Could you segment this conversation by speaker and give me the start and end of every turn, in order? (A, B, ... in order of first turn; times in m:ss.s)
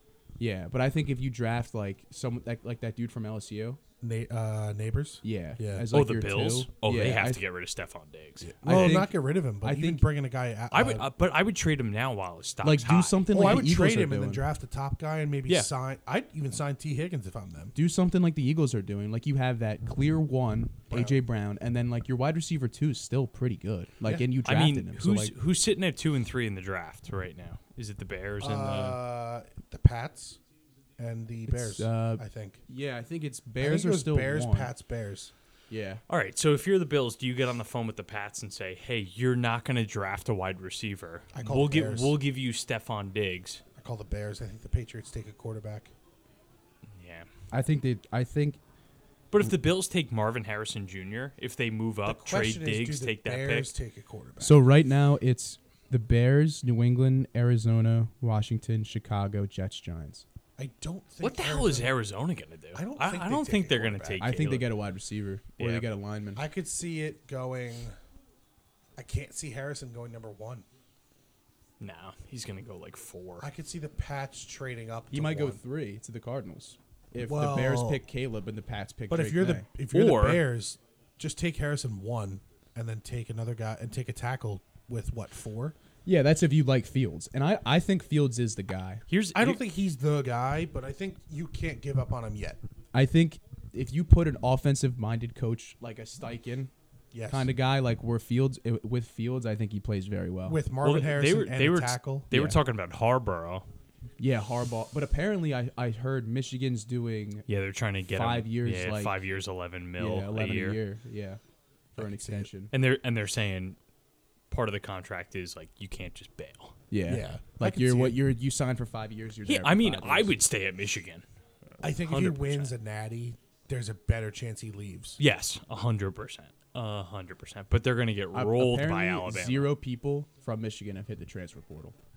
0:00.4-0:03.8 A
0:04.0-0:05.9 B
0:05.2-0:07.4 A
0:05.9-0:09.1 C
0:08.4-0:11.1 B
0:08.6-0:10.0 A
0:10.7-0:13.6 C
0:12.6-0:14.4 A
0:13.3-0:17.7 B
0:17.8-0:25.3 A
0:20.9-0:21.2 B
0:24.0-0:24.3 B
0:24.4-0:29.0 C
0:28.4-0:30.4 B
0:31.0-0:32.6 B
0:31.5-0:34.7 A
0:33.6-0:35.3 B
0:35.7-0:36.0 A
0:36.1-0:43.6 C
0:41.3-0:42.2 B
0:43.8-0:45.9 B
0:46.9-0:47.3 C
0:47.5-0:48.6 A
0:49.3-0:53.7 C
0:52.0-0:54.7 B
0:54.4-1:00.2 A
1:00.6-1:02.0 B
1:01.2-1:04.7 C
1:02.7-1:04.2 B
1:04.2-1:06.4 A
1:05.6-1:05.9 C
1:06.4-1:08.0 B
1:09.0-1:10.6 B
1:11.8-1:13.5 C
1:13.4-1:15.6 B
1:15.1-1:19.7 A
1:17.2-1:18.0 B
1:19.1-1:25.8 B
1:19.9-1:20.4 C
1:26.0-1:29.0 A
1:29.1-1:29.6 C
1:29.3-1:32.6 B
1:32.9-1:36.7 A
1:37.1-1:37.5 B
1:37.3-1:40.6 A
1:40.5-1:42.3 B
1:40.8-1:43.7 C
1:42.3-1:42.6 A
1:44.2-1:47.5 A
1:47.5-1:50.8 C
1:48.1-1:49.2 A
1:50.0-1:51.4 A
1:52.0-1:52.7 A
1:52.0-1:52.5 B
1:52.7-1:53.8 C
1:54.5-1:56.8 C
1:56.9-2:00.3 A
1:57.1-1:58.2 B
1:59.5-2:01.2 C
2:01.8-2:05.2 B
2:01.8-2:02.7 C
2:05.2-2:09.7 C
2:08.3-2:12.0 A